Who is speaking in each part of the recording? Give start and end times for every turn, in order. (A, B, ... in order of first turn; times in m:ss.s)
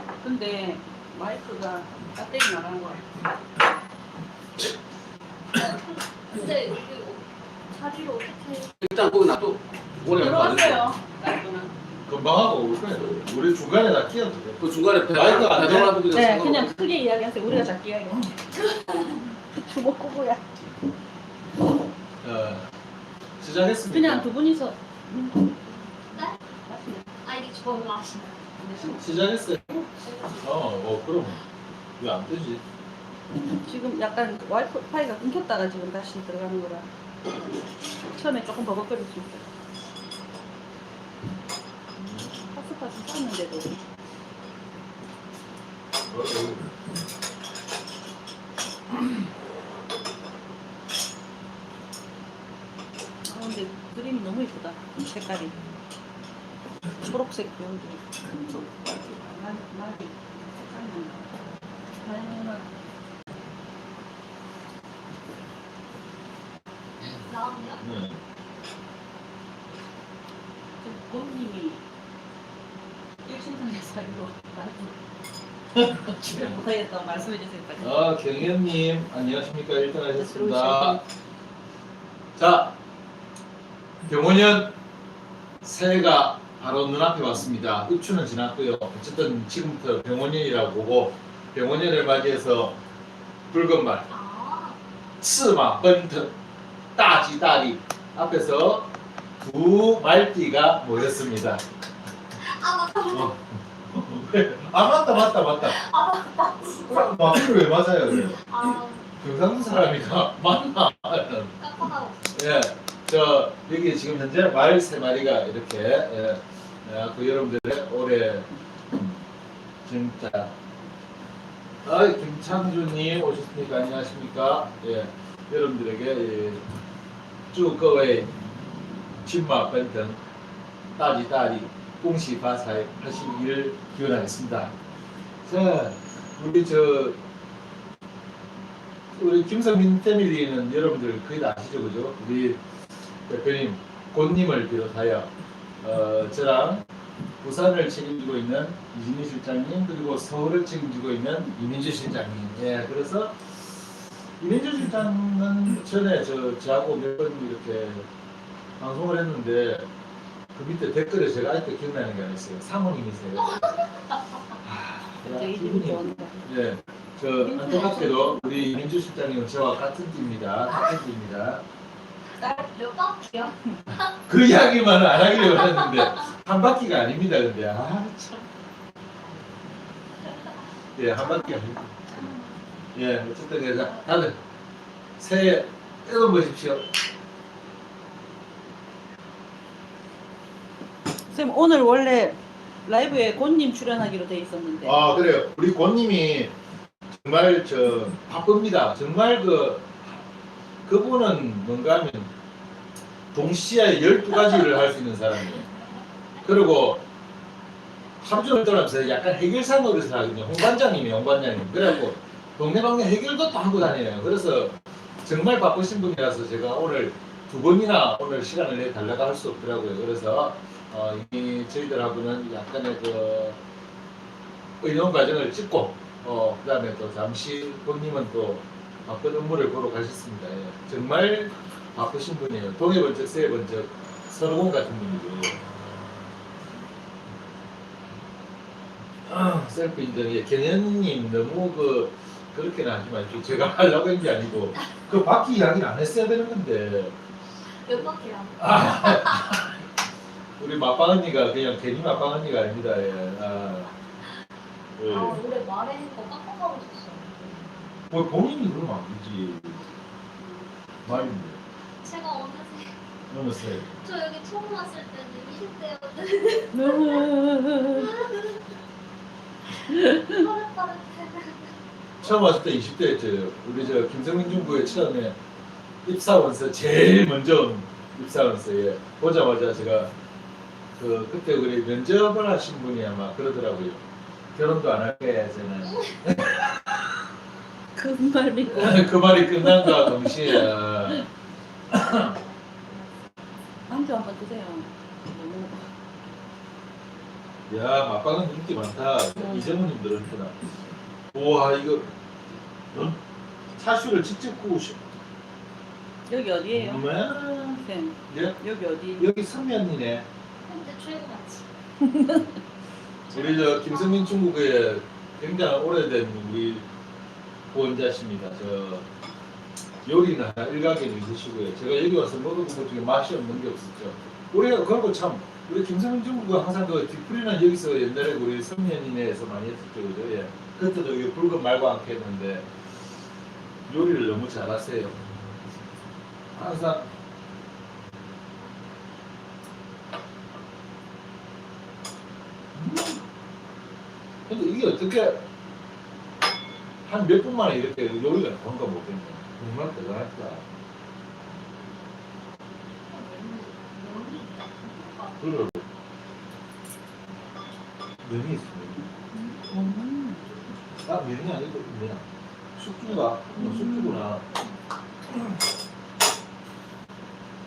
0:00.2-0:03.1 A
0:05.5-0:08.8 B
0:08.8-0:10.9 C
0:10.2-0:11.7 A
0:10.2-0:10.9 B
0:12.1-0:16.0 D
0:14.6-0:16.6 C
0:16.1-0:18.3 A
0:18.6-0:19.1 B
0:19.5-0:20.4 A
0:22.2-0:22.7 D
0:23.4-0:24.3 D
0:23.9-0:27.1 A
0:27.2-0:28.4 B
0:28.6-0:29.1 A
0:28.8-0:31.4 D
0:30.0-0:30.4 A
0:32.0-0:32.6 D
0:33.6-0:36.9 A
0:38.0-0:39.4 A
0:42.0-0:42.5 D
0:42.5-0:43.8 A
0:46.1-0:46.7 D
0:53.2-0:55.6 A
0:57.0-1:01.2 A
1:02.0-1:02.7 A
1:07.2-1:07.8 B
1:07.8-1:08.2 D
1:10.8-1:11.8 A
1:13.2-1:14.9 A
1:15.8-1:16.6 D
1:16.3-1:18.0 A
1:17.8-1:21.0 D
1:20.2-1:21.0 A
1:22.4-1:22.8 D
1:24.0-1:24.8 D
1:25.6-1:32.8 D
1:33.5-1:34.1 D
1:34.1-1:34.8 B
1:35.2-1:36.3 D
1:37.0-1:41.6 D
1:42.4-1:43.4 B
1:43.1-1:45.8 D
1:45.6-1:47.4 B
1:46.9-1:48.4 D
1:48.2-1:49.1 B
1:49.2-1:51.6 D
1:51.6-1:52.5 B
1:52.3-1:59.2 D
1:59.9-2:00.5 D
2:01.8-2:06.6 D
2:07.5-2:08.3 D
2:09.2-2:10.2 D
2:11.0-2:14.7 D
2:15.4-2:17.2 D
2:19.1-2:22.6 D
2:23.3-2:26.8 D
2:27.4-2:33.6 D
2:34.4-2:38.1 D
2:38.8-2:39.9 D
2:40.6-2:43.8 D
2:43.4-2:44.2 B
2:44.6-2:51.6 D
2:45.2-2:46.4 A
2:47.4-2:48.7 A
2:50.7-2:51.0 B
2:52.4-2:54.0 B
2:54.2-2:58.5 D
2:55.2-2:56.3 B
3:01.0-3:02.2 D
3:01.2-3:01.6 B
3:02.9-3:04.4 D
3:05.2-3:06.9 D
3:11.3-3:15.0 A
3:14.8-3:16.5 D
3:17.1-3:20.1 D
3:20.8-3:22.3 D
3:23.3-3:25.7 D
3:26.4-3:27.0 D
3:28.2-3:43.6 D
3:44.8-3:55.6 D
3:59.3-4:07.2 D
4:07.8-4:09.6 B
4:08.6-4:09.7 D
4:10.6-4:13.9 D
4:15.0-4:15.4 D
4:15.0-4:17.8 B
4:18.1-4:19.8 D
4:21.0-4:21.6 D
4:22.0-4:23.0 B
4:23.3-4:23.9 D
4:23.9-4:27.3 B
4:26.7-4:28.1 A
4:27.9-4:28.6 B
4:29.9-4:30.3 A
4:29.9-4:31.7 B
4:32.2-4:35.4 D
4:33.9-4:35.0 B
4:36.0-4:40.1 D
4:41.0-4:44.0 D
4:44.5-4:47.1 D
4:45.9-4:46.2 B
4:48.0-4:51.2 A
4:48.8-4:51.3 D
4:51.9-4:52.3 D
4:53.9-4:55.9 A
4:57.7-5:00.8 D
4:59.4-4:59.8 A
5:01.3-5:02.1 D
5:03.8-5:05.0 D
5:06.3-5:07.1 A
5:06.7-5:08.6 D
5:07.7-5:09.3 A
5:09.1-5:10.3 D
5:10.6-5:11.7 B
5:12.0-5:12.5 A
5:13.3-5:14.5 B
5:13.3-5:16.9 D
5:17.7-5:19.1 D
5:20.0-5:32.7 D
5:33.9-5:35.2 D
5:36.6-5:37.1 D
5:42.7-5:43.2 D
5:44.5-5:45.4 D
5:47.0-5:50.6 D
5:53.1-5:55.4 B
5:55.4-5:55.9 D
5:58.2-5:59.1 D
5:59.3-5:59.7 B
5:59.7-6:00.0 D
5:59.7-6:00.4 A
6:01.0-6:02.2 D
6:02.8-6:04.4 D
6:03.5-6:04.7 B